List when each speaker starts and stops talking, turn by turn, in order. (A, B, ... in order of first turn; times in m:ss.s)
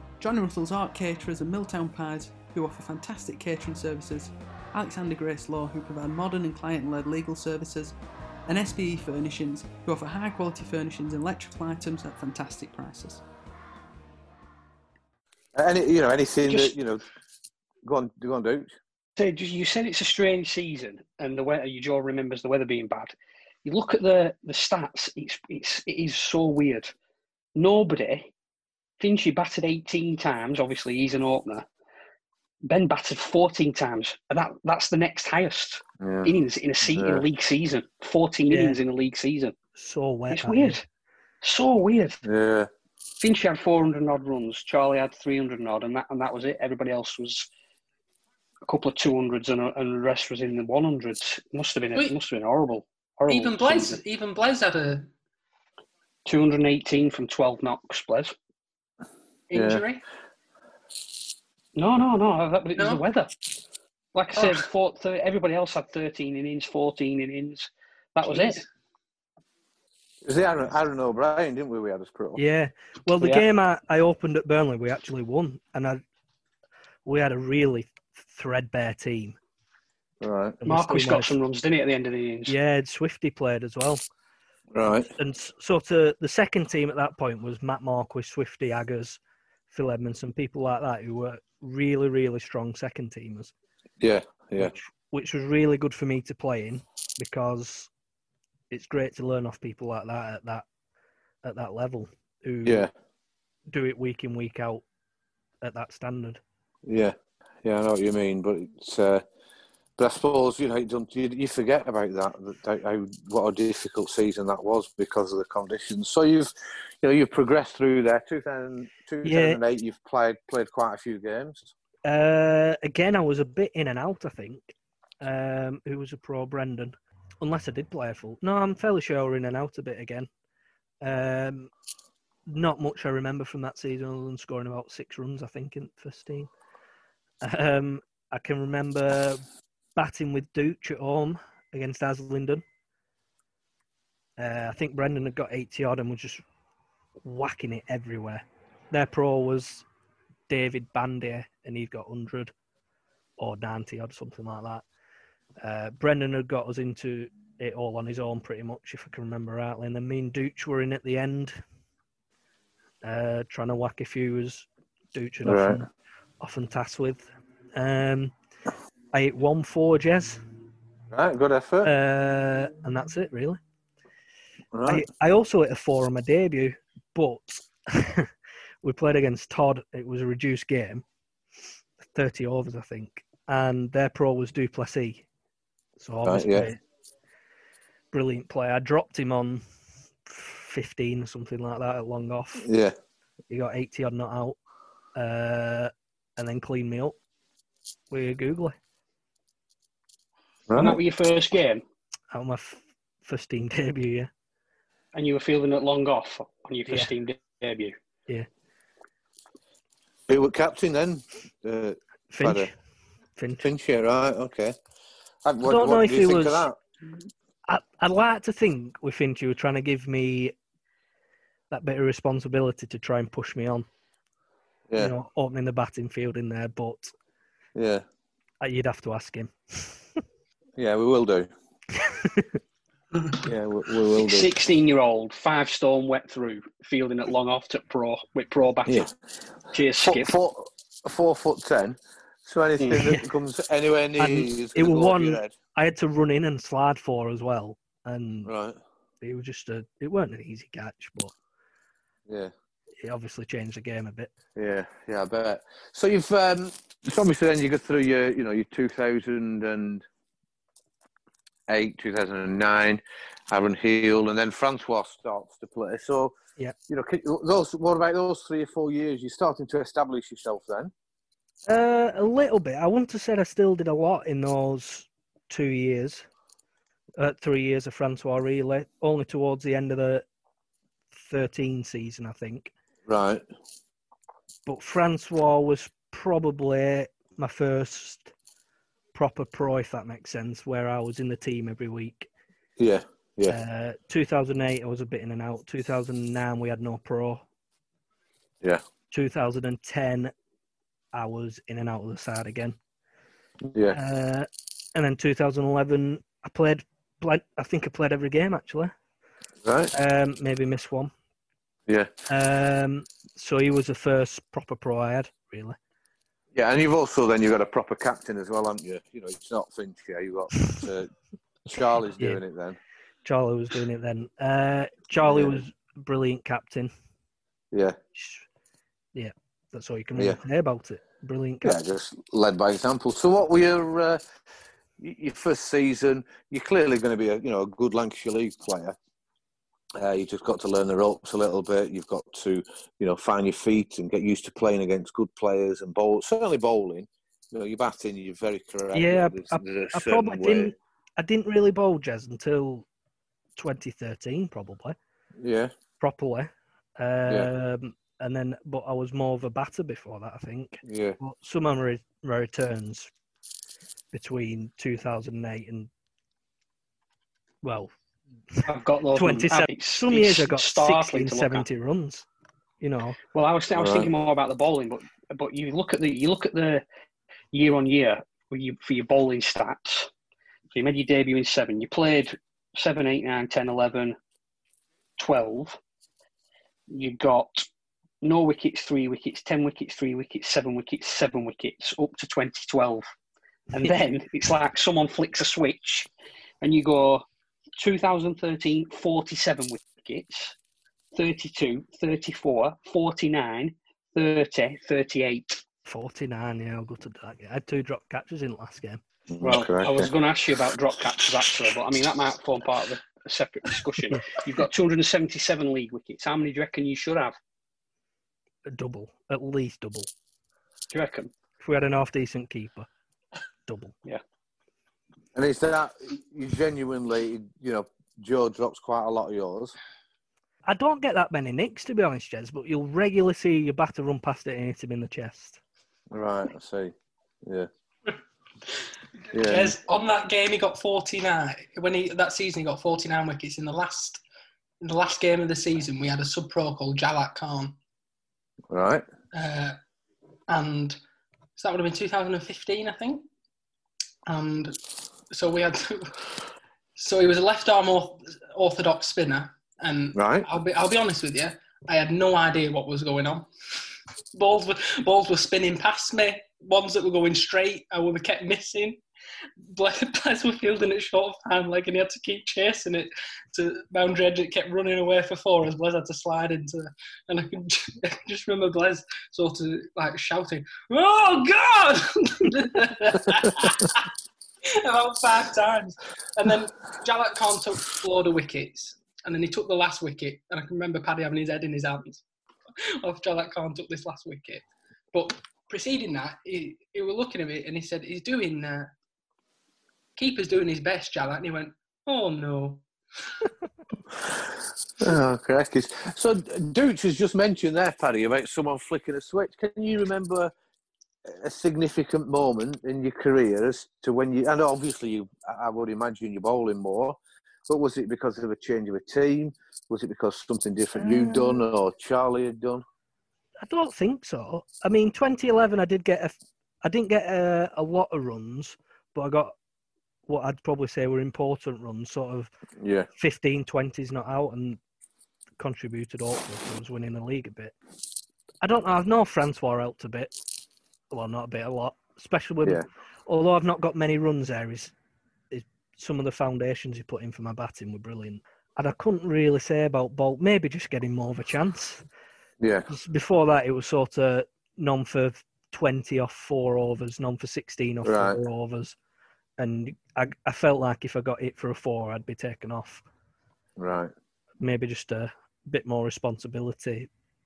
0:00.2-0:13.2 A
0:15.6-0:17.0 B
0:17.8-0:18.8 B
0:19.2-0:23.1 C
0:23.6-0:26.9 C
0:27.6-0:28.3 C
0:29.0-0:31.7 C
0:32.6-0:39.6 C
0:36.0-0:36.3 B
0:36.9-0:37.2 B
0:38.5-0:38.8 D
0:39.8-0:40.8 D
0:40.3-0:40.8 C
0:41.4-0:42.2 C
0:42.2-0:42.7 B
0:43.2-0:47.5 C
0:48.7-0:54.0 C
0:53.3-0:55.1 E
0:56.2-0:58.3 C
0:59.5-1:00.0 E
0:59.5-0:59.8 B
1:01.8-1:03.3 C
1:02.8-1:03.0 E
1:04.1-1:08.6 C
1:04.3-1:04.6 E
1:08.3-1:08.6 E
1:10.2-1:12.4 B
1:12.4-1:16.0 D
1:17.1-1:19.4 D
1:20.2-1:20.6 B
1:20.6-1:21.3 D
1:20.7-1:22.6 C
1:22.5-1:24.0 D
1:24.7-1:25.1 B
1:25.1-1:29.2 D
1:29.7-1:33.5 D
1:34.0-1:34.7 B
1:34.6-1:37.9 D
1:38.7-1:40.6 D
1:41.4-1:42.9 D
1:42.6-1:42.9 B
1:43.7-1:44.8 D
1:45.6-1:46.4 D
1:46.9-1:49.2 B
1:50.0-1:56.5 B
1:57.0-2:01.7 B
1:59.2-1:59.6 D
2:02.0-2:10.3 D
2:11.0-2:11.7 D
2:12.5-2:16.5 D
2:17.4-2:19.4 D
2:20.0-2:22.6 D
2:24.4-2:26.4 D
2:27.2-2:29.8 D
2:30.5-2:32.5 D
2:33.4-2:34.8 D
2:35.6-2:41.6 D
2:43.0-2:45.8 D
2:45.4-2:45.8 B
2:46.4-2:48.3 D
2:49.1-2:50.4 D
2:51.1-2:51.9 B
2:51.8-2:53.6 D
2:54.7-2:55.0 B
2:54.9-2:58.3 D
2:58.8-3:01.0 D
3:02.0-3:05.2 D
3:06.0-3:06.8 D
3:06.2-3:06.7 B
3:08.1-3:09.6 D
3:10.2-3:12.7 D
3:12.6-3:12.9 B
3:13.5-3:14.6 D
3:15.2-3:17.2 D
3:18.1-3:18.8 D
3:20.7-3:21.0 B
3:20.8-3:21.8 C
3:22.3-3:24.3 D
3:25.1-3:27.9 C
3:30.3-3:32.7 B
3:32.3-3:32.7 D
3:33.4-3:33.7 D
3:33.6-3:34.8 B
3:35.4-3:36.8 B
3:35.6-3:36.7 D
3:37.7-3:40.5 D
3:41.7-3:43.9 D
3:45.0-3:47.1 D
3:47.8-3:48.0 B
3:48.6-3:50.0 D
3:50.8-3:51.5 B
3:52.0-3:52.5 D
3:53.4-3:54.5 B
3:54.2-3:59.1 C
3:59.7-4:00.3 C
4:00.0-4:05.5 B
4:02.9-4:03.2 D
4:04.2-4:08.5 D
4:08.4-4:08.8 B
4:09.2-4:11.3 D
4:13.0-4:14.3 D
4:14.6-4:20.0 B
4:21.7-4:26.3 B
4:26.9-4:30.9 B
4:31.7-4:36.2 D
4:37.2-4:40.2 D
4:41.1-4:42.7 D
4:43.1-4:43.4 B
4:44.6-4:48.3 D
4:49.1-4:52.3 D
4:52.8-4:53.6 B
4:53.5-4:57.4 D
4:59.1-5:00.3 D
5:01.1-5:02.8 D
5:03.7-5:04.0 B
5:03.9-5:08.9 D
5:09.6-5:09.9 B
5:09.9-5:11.1 D
5:11.9-5:12.1 B
5:12.3-5:15.8 D
5:16.5-5:21.1 B
5:21.6-5:22.8 B
5:23.2-5:26.9 D
5:25.2-5:25.6 B
5:28.2-5:28.4 D
5:29.1-5:31.8 D
5:31.6-5:34.2 B
5:35.0-5:39.0 B
5:40.0-5:50.7 B
5:48.9-5:52.8 D
5:53.6-5:55.0 D
5:55.4-5:55.7 B
5:56.0-6:03.1 D
6:00.8-6:01.2 B
6:04.1-6:05.9 D
6:07.6-6:07.9 D
6:08.6-6:11.6 C
6:09.1-6:12.2 D
6:12.8-6:13.2 D
6:13.3-6:16.8 C
6:13.8-6:14.1 B
6:17.5-6:20.1 C
6:20.7-6:24.2 C
6:25.2-6:25.8 C
6:26.9-6:27.6 C
6:28.2-6:33.1 C
6:33.7-6:36.1 C
6:36.6-6:37.2 C
6:37.8-6:40.5 C
6:41.1-6:45.6 C
6:45.8-6:49.0 D
6:49.3-6:50.1 B
6:49.4-6:57.4 C
6:58.7-7:00.1 D
7:00.9-7:01.3 C
7:01.6-7:02.9 D
7:03.7-7:03.9 D
7:05.3-7:09.7 B
7:10.7-7:15.6 D
7:16.1-7:16.9 B
7:19.3-7:19.8 B
7:19.4-7:24.2 E
7:24.8-7:27.8 E
7:28.7-7:29.0 B
7:29.3-7:29.8 E
7:30.5-7:31.0 E
7:31.6-7:33.2 E
7:34.2-7:34.8 E
7:35.3-7:36.3 E
7:37.0-7:43.5 E
7:40.1-7:40.5 B
7:44.3-7:49.0 E
7:49.7-8:04.1 E
8:04.7-8:12.2 E
8:13.0-8:18.9 E
8:20.2-8:22.8 E
8:24.2-8:30.5 B
8:31.2-8:37.2 B
8:37.7-8:42.8 B
8:41.0-8:41.6 D
8:43.6-8:49.5 D
8:50.3-8:52.5 D
8:52.8-8:53.1 B
8:53.2-8:54.8 D
8:55.6-8:57.8 D
8:58.6-9:00.3 D
9:01.1-9:04.9 D
9:05.5-9:12.0 D
9:12.6-9:12.9 B
9:12.9-9:19.0 D
9:18.0-9:18.4 B
9:19.6-9:23.0 D
9:23.8-9:24.1 B
9:24.6-9:27.1 D